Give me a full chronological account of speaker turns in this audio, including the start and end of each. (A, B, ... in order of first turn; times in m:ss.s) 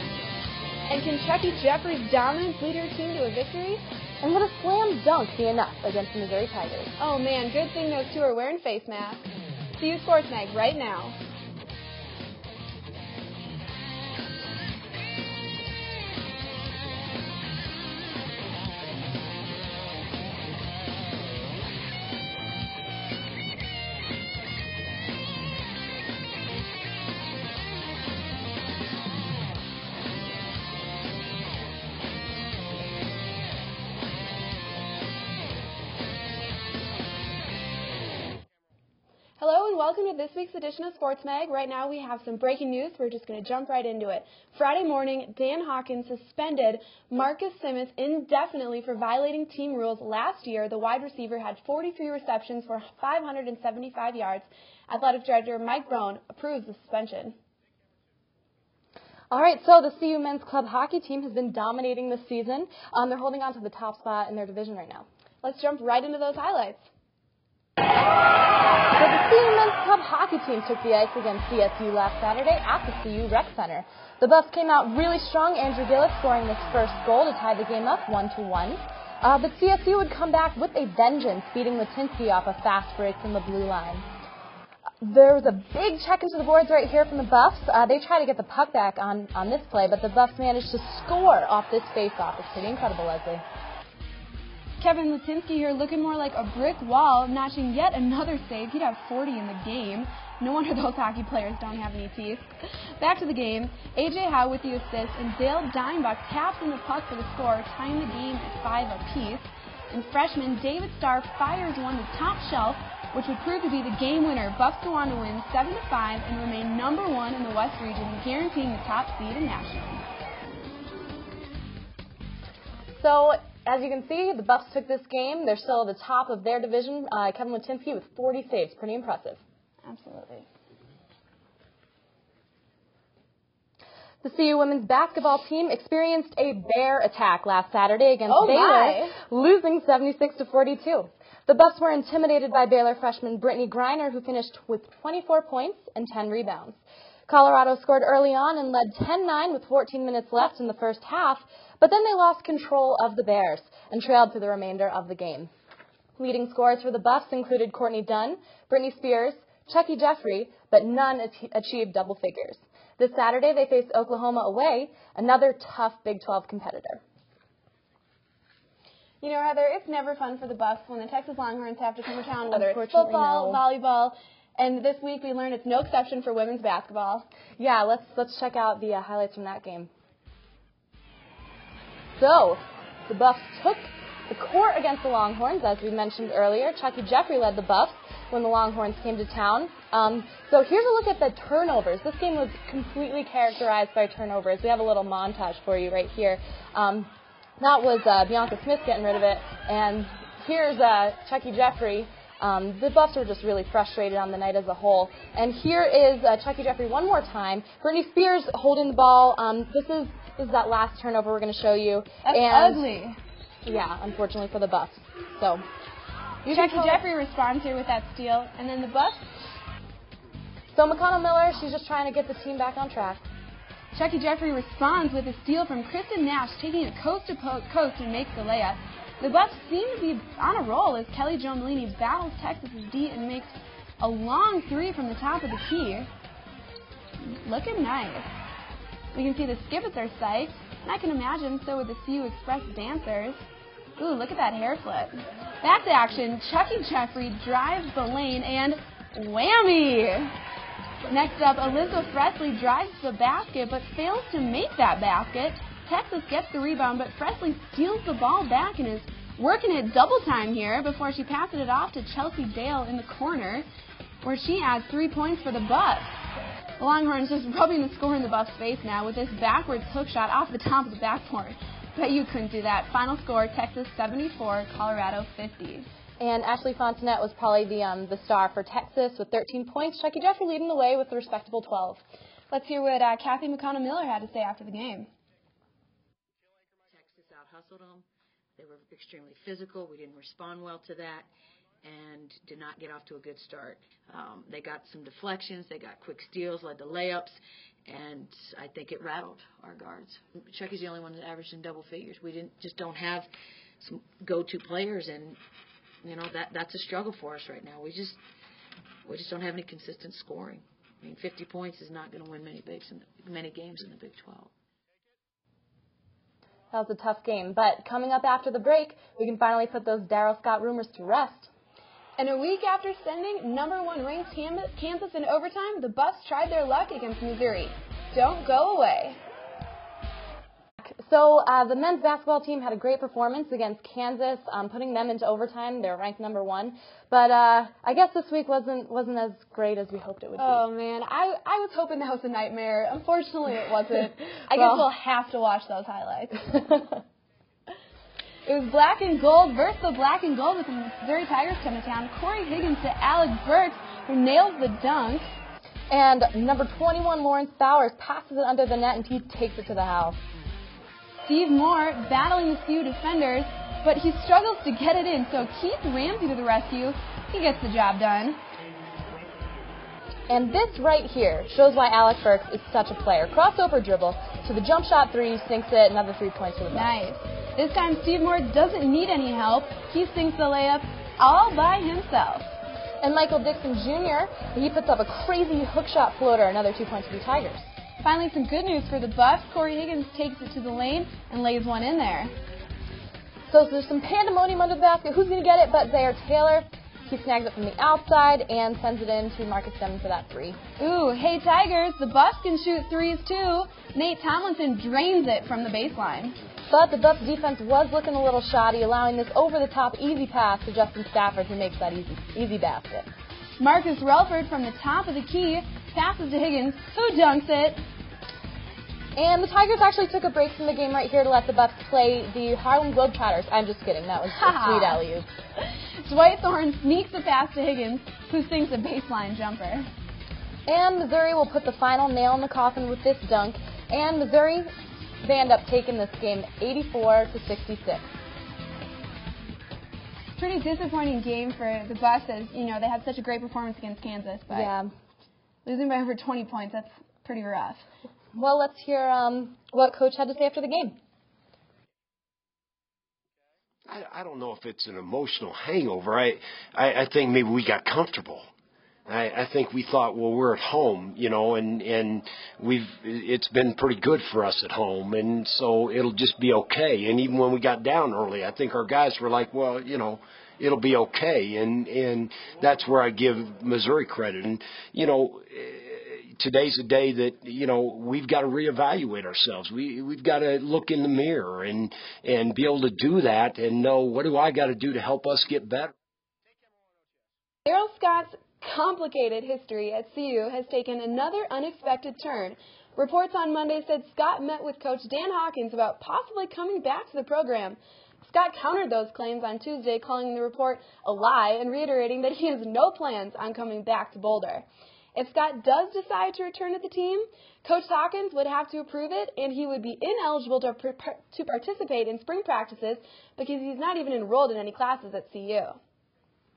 0:00.9-0:03.8 A
0:04.2-0:06.9 B
0:07.0-0:11.2 A
0:39.4-0:57.4 A
0:59.3-1:05.0 B
1:05.4-1:06.8 A
1:08.9-1:24.0 B
1:25.0-1:33.4 B
1:34.8-2:00.0 A
2:03.0-2:09.4 B
2:09.8-2:10.4 A
2:14.2-2:35.5 B
2:18.3-2:19.2 A
2:36.2-2:47.0 B
2:49.2-2:57.2 A
2:52.5-2:53.6 B
2:57.6-2:59.9 B
3:02.2-3:32.8 B
3:32.2-3:33.2 A
3:33.6-3:35.6 B
3:36.4-3:37.0 B
3:36.4-3:39.3 A
3:40.7-3:43.3 B
3:43.9-3:56.1 A
3:57.2-3:58.3 A
3:59.1-4:03.4 A
4:04.0-4:10.3 A
4:11.1-4:23.7 A
4:24.2-4:26.2 A
4:26.8-4:35.9 A
4:36.2-4:42.0 B
4:42.5-4:45.1 A
4:46.9-4:48.0 C
4:48.6-4:51.3 C
4:51.8-5:03.3 C
5:03.8-5:05.4 C
5:06.0-5:08.2 C
5:09.0-5:14.5 C
5:16.7-5:21.5 B
5:22.2-5:29.2 A
5:30.8-5:40.6 B
5:40.4-5:46.9 A
5:44.5-5:44.8 B
5:48.5-5:55.3 A
5:55.9-6:00.2 B
6:01.2-6:08.4 A
6:10.3-6:17.0 B
6:16.7-6:22.6 A
6:23.0-6:27.7 B
6:28.0-6:32.3 A
6:33.5-6:40.6 B
6:40.8-6:46.4 A
6:46.7-6:53.1 B
6:53.6-6:57.8 A
6:59.2-7:05.3 B
7:04.3-7:05.0 A
7:06.0-7:09.9 A
7:10.7-7:18.1 B
7:20.4-7:24.7 A
7:24.5-7:24.9 B
7:25.6-7:27.9 A
7:28.3-7:31.0 B
7:33.9-7:38.5 D
7:39.1-8:05.9 D
8:07.7-8:35.8 A